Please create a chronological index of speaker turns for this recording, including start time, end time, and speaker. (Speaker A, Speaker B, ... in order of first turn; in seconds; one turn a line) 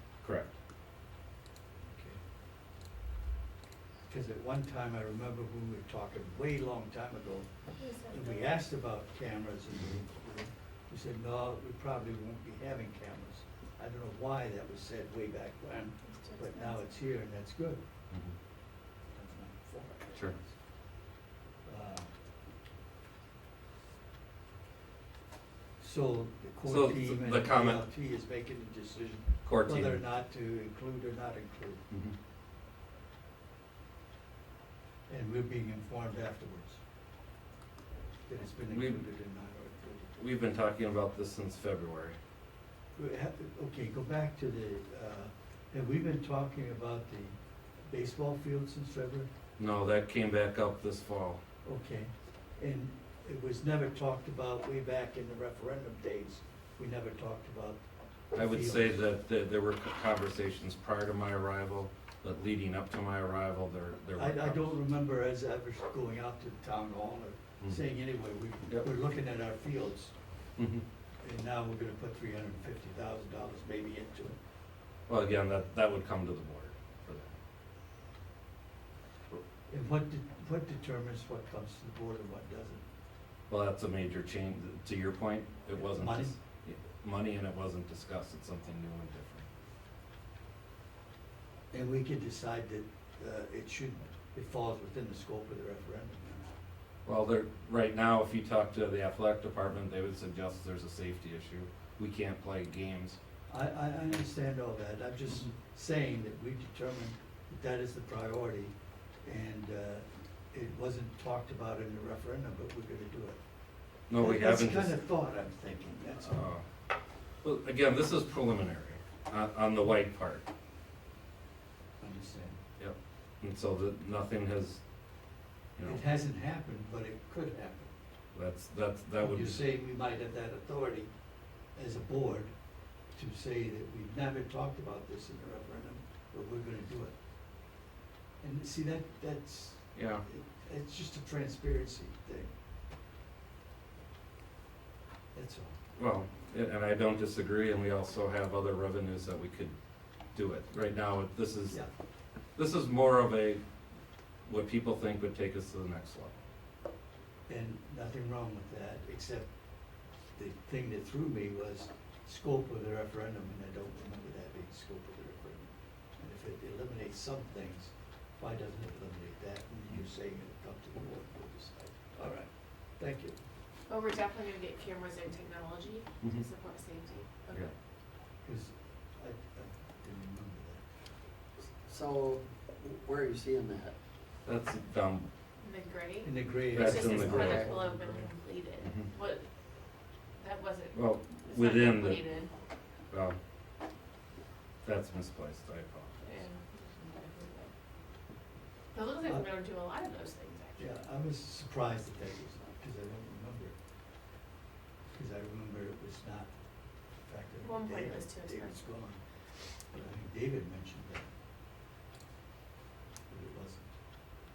Speaker A: 0.2-0.6
Speaker B: 1.8-2.2
Speaker B: 4.1-7.5
Speaker C: 7.8-8.5
Speaker B: 8.0-17.8
Speaker C: 16.1-16.8
Speaker B: 19.1-20.6
Speaker B: 21.6-22.1
Speaker B: 25.8-31.8
Speaker A: 26.7-27.8
Speaker A: 29.4-30.0
Speaker B: 35.1-36.8
Speaker B: 38.3-40.1
Speaker A: 38.7-39.0
Speaker A: 40.2-42.2
Speaker B: 43.0-49.3
Speaker A: 49.6-51.4
Speaker B: 51.6-59.0
Speaker A: 58.4-64.7
Speaker B: 64.2-70.2
Speaker A: 70.6-70.8
Speaker B: 71.2-74.4
Speaker A: 75.1-77.3
Speaker B: 79.7-82.8
Speaker A: 83.5-89.5
Speaker B: 85.7-86.4
Speaker B: 91.7-96.5
Speaker A: 97.0-103.2
Speaker B: 103.5-108.7
Speaker B: 109.2-113.4
Speaker A: 114.1-115.0
Speaker B: 114.2-116.5
Speaker A: 116.3-116.7
Speaker A: 117.4-120.5
Speaker B: 122.0-122.6
Speaker A: 122.8-124.8
Speaker B: 125.8-127.9
Speaker A: 128.3-129.6
Speaker B: 129.2-131.1
Speaker B: 131.8-132.5
Speaker B: 133.1-137.1
Speaker B: 138.4-142.5
Speaker A: 139.9-140.2
Speaker B: 145.3-145.7
Speaker A: 146.0-149.7
Speaker A: 150.3-151.8
Speaker A: 152.6-153.6
Speaker A: 154.4-156.4
Speaker B: 157.5-159.5
Speaker B: 160.3-173.4
Speaker C: 173.9-177.7
Speaker B: 178.4-180.8
Speaker D: 181.8-184.0
Speaker A: 184.4-185.3
Speaker C: 185.6-189.5
Speaker B: 186.2-188.3
Speaker A: 186.7-187.7
Speaker D: 186.8-187.7
Speaker A: 188.8-189.1
Speaker C: 190.4-192.5
Speaker A: 190.9-192.2
Speaker A: 193.1-193.4
Speaker A: 194.8-196.3
Speaker C: 196.2-197.7
Speaker C: 198.9-200.9
Speaker B: 200.8-203.8
Speaker B: 205.1-206.5
Speaker B: 207.3-209.2
Speaker C: 207.6-208.8
Speaker B: 209.9-211.3
Speaker B: 213.3-213.9